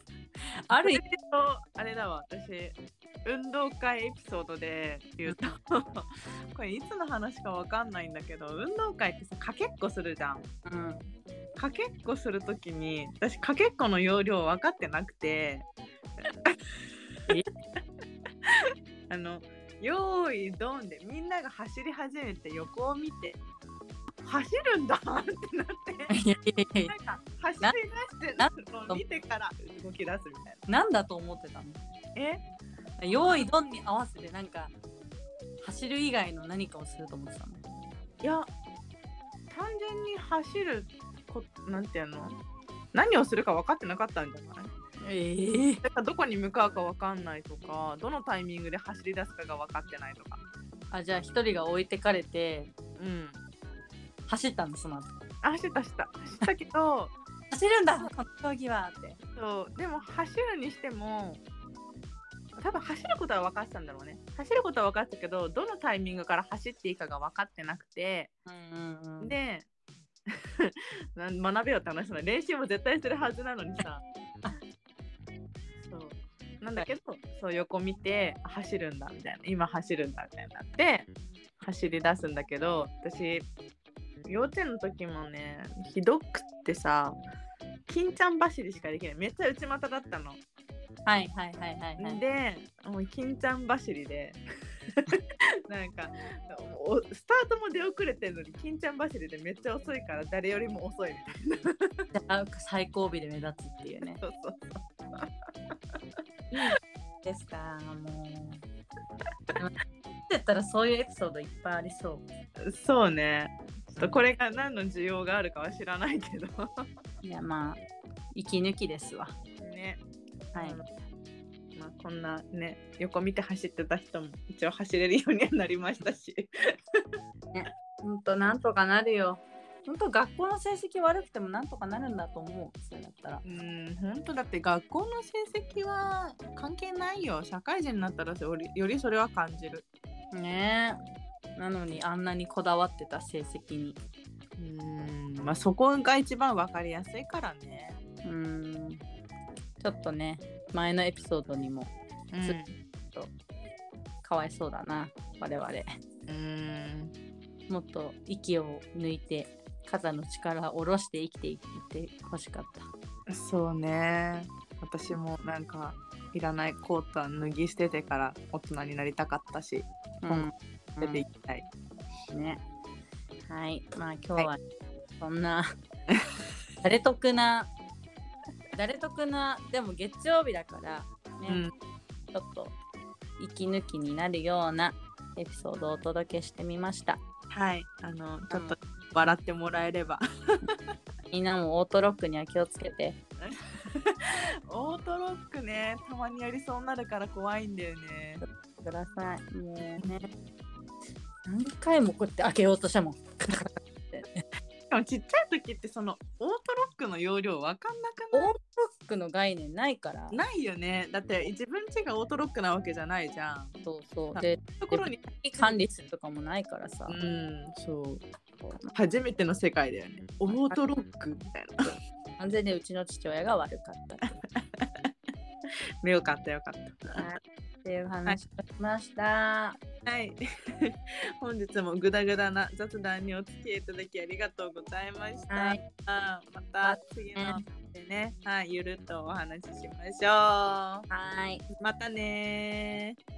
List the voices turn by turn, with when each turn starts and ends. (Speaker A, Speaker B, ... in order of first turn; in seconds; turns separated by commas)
Speaker A: 0.6-1.0, Speaker B: 0.7-10.5, Speaker A: 10.6-11.1, Speaker B: 11.6-15.7, Speaker B: 16.2-16.6, Speaker B: 18.4-23.4, Speaker B: 24.2-26.1, Speaker A: 26.1-26.9, Speaker B: 26.9-30.6, Speaker A: 28.4-29.0, Speaker A: 30.7-31.8, Speaker B: 32.1-32.4, Speaker A: 33.0-34.7, Speaker A: 35.6-37.6, Speaker B: 38.2-38.5, Speaker B: 39.5-42.4, Speaker B: 42.9-44.7, Speaker A: 45.0-45.8, Speaker B: 45.8-50.4, Speaker A: 50.9-52.7, Speaker B: 53.0-53.4, Speaker A: 54.3-55.1, Speaker B: 55.4-57.1, Speaker A: 57.5-59.2, Speaker B: 59.4-61.4, Speaker B: 62.6-68.3, Speaker A: 68.5-69.3, Speaker B: 69.2-69.7, Speaker B: 70.3-74.0, Speaker B: 75.8-81.1, Speaker B: 81.6-83.5, Speaker B: 84.2-87.2, Speaker B: 87.9-90.4, Speaker A: 91.0-92.2, Speaker B: 92.0-102.1, Speaker A: 102.1-104.2, Speaker B: 104.2-106.0, Speaker A: 106.5-108.6, Speaker A: 110.3-112.2, Speaker B: 112.7-116.8, Speaker A: 117.2-117.8, Speaker A: 118.3-119.3, Speaker B: 119.6-120.0, Speaker A: 120.5-120.8, Speaker B: 120.5-120.8, Speaker B: 121.8-127.0, Speaker A: 127.5-133.4, Speaker B: 133.4-139.8, Speaker A: 140.3-141.0, Speaker A: 141.6-144.0, Speaker B: 144.6-148.0, Speaker A: 148.2-149.0, Speaker A: 149.8-152.6, Speaker B: 152.3-152.8, Speaker A: 154.2-155.9, Speaker B: 156.3-157.1, Speaker A: 157.7-162.9, Speaker B: 163.3-170.5, Speaker A: 170.2-171.2, Speaker B: 171.0-171.7, Speaker A: 172.3-172.6, Speaker A: 173.5-174.6, Speaker A: 175.2-175.7, Speaker A: 176.8-177.7, Speaker A: 178.7-181.7, Speaker B: 181.5-181.7, Speaker A: 182.3-182.8, Speaker A: 183.4-187.2, Speaker B: 187.5-190.9, Speaker A: 188.5-188.8, Speaker A: 191.3-193.2, Speaker B: 193.4-198.4, Speaker A: 198.4-200.3, Speaker A: 201.4-204.4, Speaker B: 204.9-208.5, Speaker A: 208.3-210.4, Speaker B: 210.3-213.8, Speaker A: 213.8-217.2, Speaker B: 214.3-215.7, Speaker B: 217.1-218.2, Speaker A: 218.6-218.9, Speaker B: 218.9-222.0, Speaker A: 220.5-220.8, Speaker A: 222.4-224.4, Speaker B: 224.8-225.1, Speaker B: 226.0-227.2, Speaker A: 227.2-229.8, Speaker B: 230.0-241.1, Speaker A: 235.5-235.8, Speaker A: 236.8-237.6, Speaker A: 241.1-241.6, Speaker B: 241.8-243.2